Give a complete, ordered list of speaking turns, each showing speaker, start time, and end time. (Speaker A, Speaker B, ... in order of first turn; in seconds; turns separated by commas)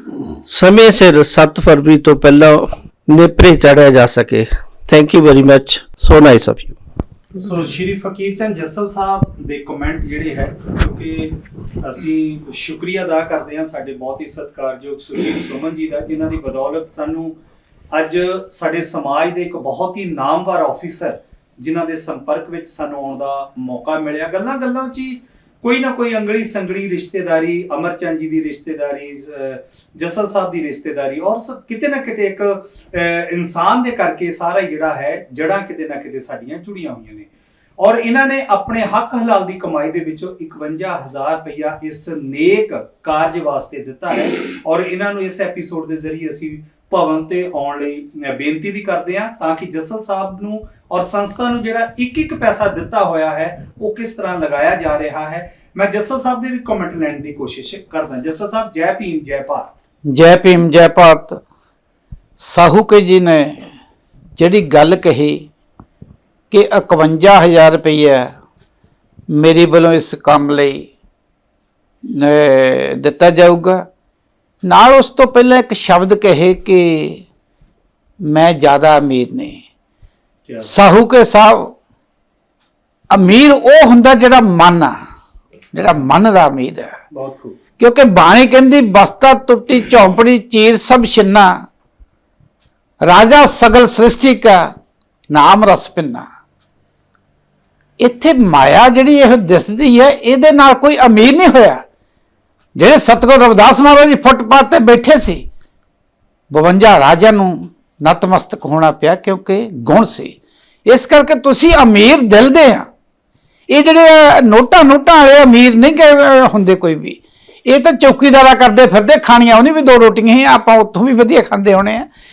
Speaker A: 0.5-6.8, Speaker B: 7.4-17.4, Speaker B: 17.9-59.7, Speaker C: 60.1-61.4, Speaker C: 62.4-63.6, Speaker C: 64.4-65.5, Speaker C: 66.5-68.3, Speaker C: 69.3-70.9, Speaker C: 72.1-73.9, Speaker C: 74.6-77.2, Speaker C: 78.2-79.6, Speaker B: 80.5-80.7, Speaker C: 80.6-81.7, Speaker C: 83.1-85.0, Speaker C: 85.7-87.0, Speaker B: 87.1-87.6, Speaker C: 87.8-91.6, Speaker C: 93.0-94.7, Speaker C: 95.3-96.3, Speaker C: 98.0-101.8, Speaker C: 102.8-105.5, Speaker C: 106.5-110.4, Speaker C: 110.9-112.9, Speaker C: 113.7-122.1